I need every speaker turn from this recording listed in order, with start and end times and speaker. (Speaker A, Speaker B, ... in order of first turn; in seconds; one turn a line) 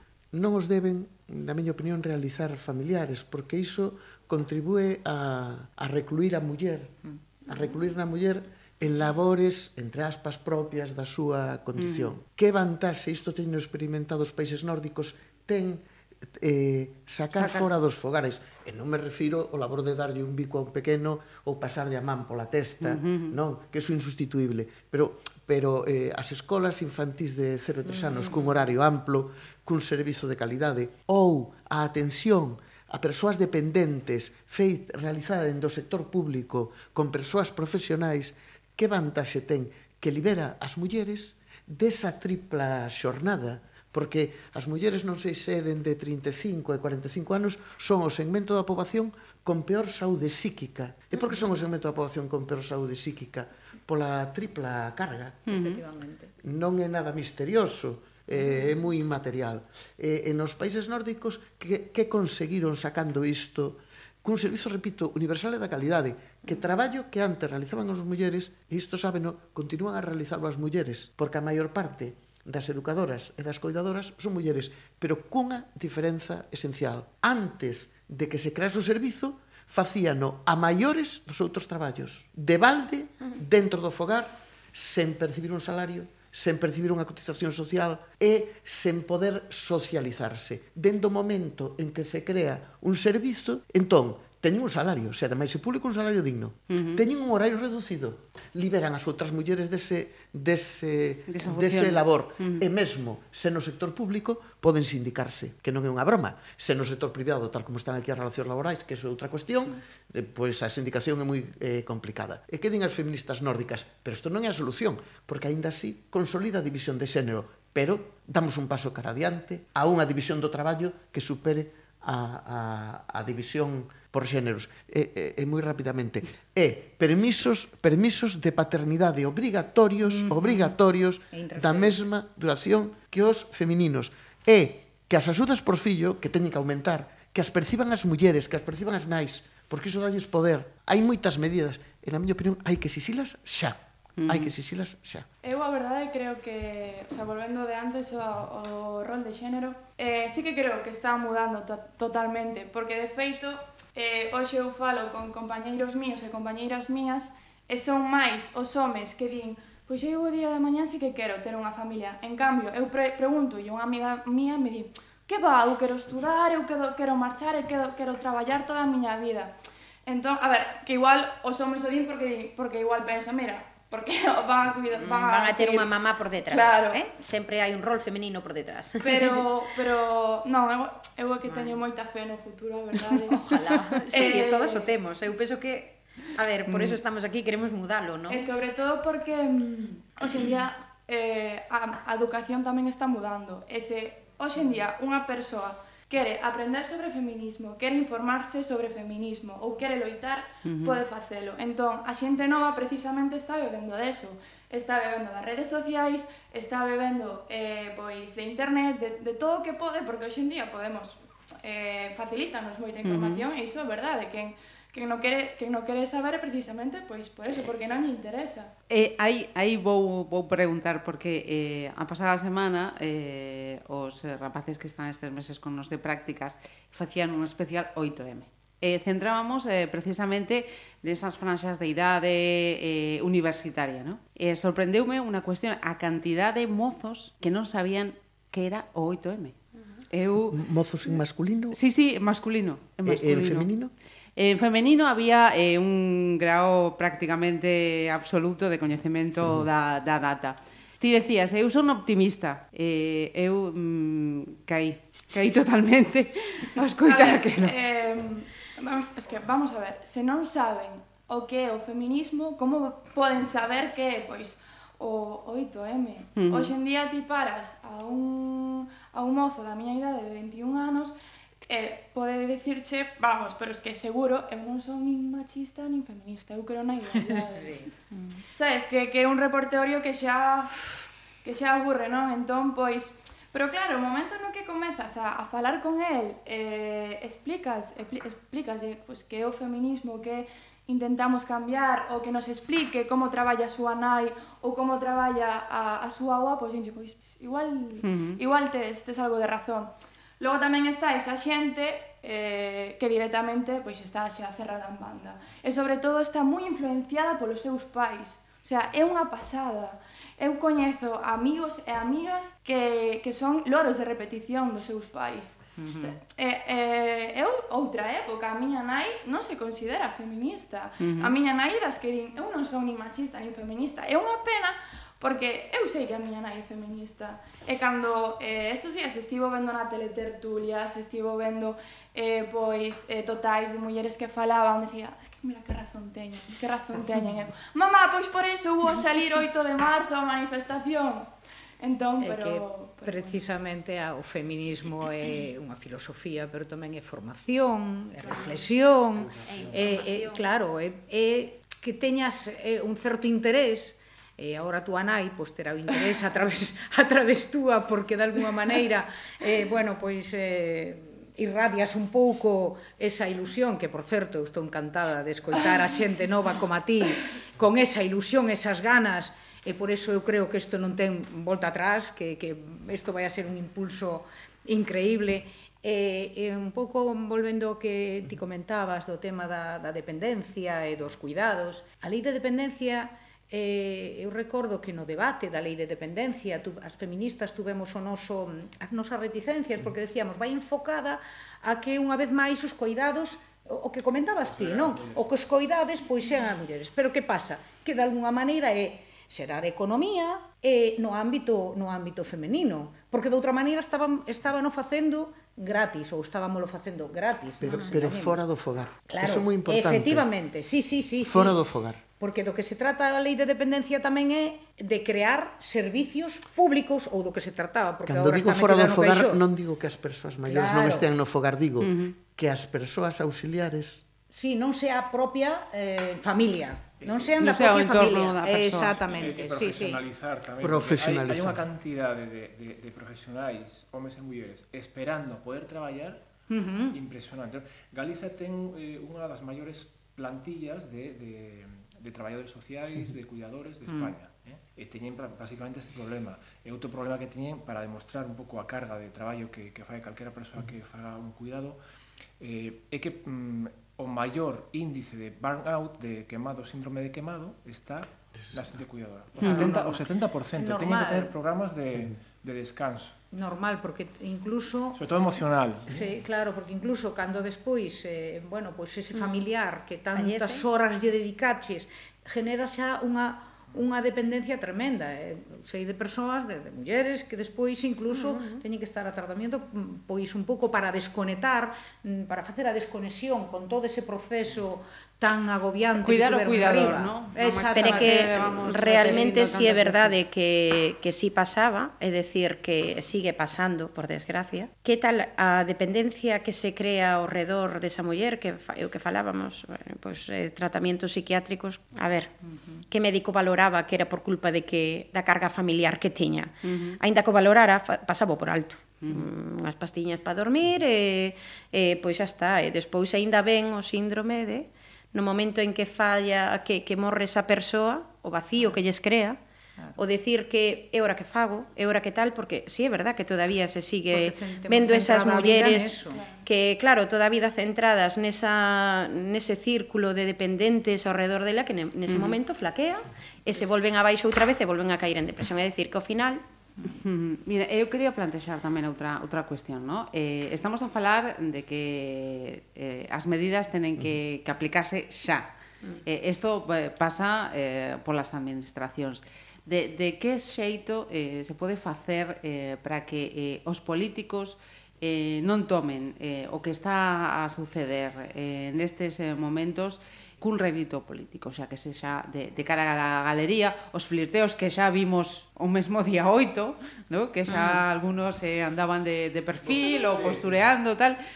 Speaker A: 0.3-55.5
Speaker B: 11.8-12.1
Speaker B: 17.3-17.6
Speaker B: 22.8-23.3
Speaker C: 28.0-28.5
Speaker C: 55.5-56.3
Speaker B: 55.5-55.8
Speaker A: 56.4-145.3
Speaker B: 96.7-97.0
Speaker B: 101.3-102.6
Speaker C: 130.0-130.8
Speaker C: 131.3-132.0
Speaker B: 144.2-144.5
Speaker D: 145.4-169.5
Speaker D: 170.1-175.9
Speaker E: 175.0-179.4
Speaker D: 176.5-177.0
Speaker D: 179.0-184.9
Speaker E: 181.4-181.8
Speaker E: 183.3-188.5
Speaker C: 183.5-183.8
Speaker B: 186.7-186.9
Speaker D: 188.3-218.7
Speaker B: 200.6-201.0
Speaker B: 213.0-213.4
Speaker B: 218.9-239.5
Speaker B: 240.1-240.6
Speaker A: 240.5-241.8
Speaker B: 241.7-243.7
Speaker A: 243.0-243.9
Speaker B: 244.3-257.7
Speaker D: 257.0-343.4
Speaker B: 266.4-266.7
Speaker C: 277.1-277.9
Speaker B: 298.0-298.4
Speaker C: 315.8-316.1
Speaker B: 321.0-321.3
Speaker C: 342.2-408.4
Speaker E: 349.4-350.4
Speaker F: 394.5-395.2
Speaker A: 407.6-410.3
Speaker C: 409.1-411.6
Speaker A: 411.2-412.0
Speaker C: 412.2-419.4
Speaker A: 418.1-424.0
Speaker C: 420.4-421.1
Speaker B: 421.8-422.1
Speaker C: 424.3-430.0
Speaker B: 427.4-429.1
Speaker F: 429.1-436.2
Speaker A: 430.6-431.6
Speaker C: 436.5-436.9
Speaker F: 436.9-451.8
Speaker F: 452.4-463.1
Speaker B: 459.4-459.8
Speaker C: 459.4-460.1
Speaker C: 460.6-461.3
Speaker C: 463.3-465.0
Speaker F: 464.9-465.9
Speaker C: 465.9-488.5
Speaker E: 470.1-470.6
Speaker E: 478.1-478.6
Speaker B: 486.0-490.2
Speaker E: 487.7-502.3
Speaker C: 502.5-502.8
Speaker E: 502.9-519.4
Speaker B: 506.6-507.0
Speaker E: 520.0-536.4
Speaker C: 524.1-526.2
Speaker D: 526.1-526.4
Speaker B: 532.1-532.4
Speaker B: 536.8-545.5
Speaker B: 546.0-571.2
Speaker E: 567.5-567.8
Speaker F: 570.1-570.4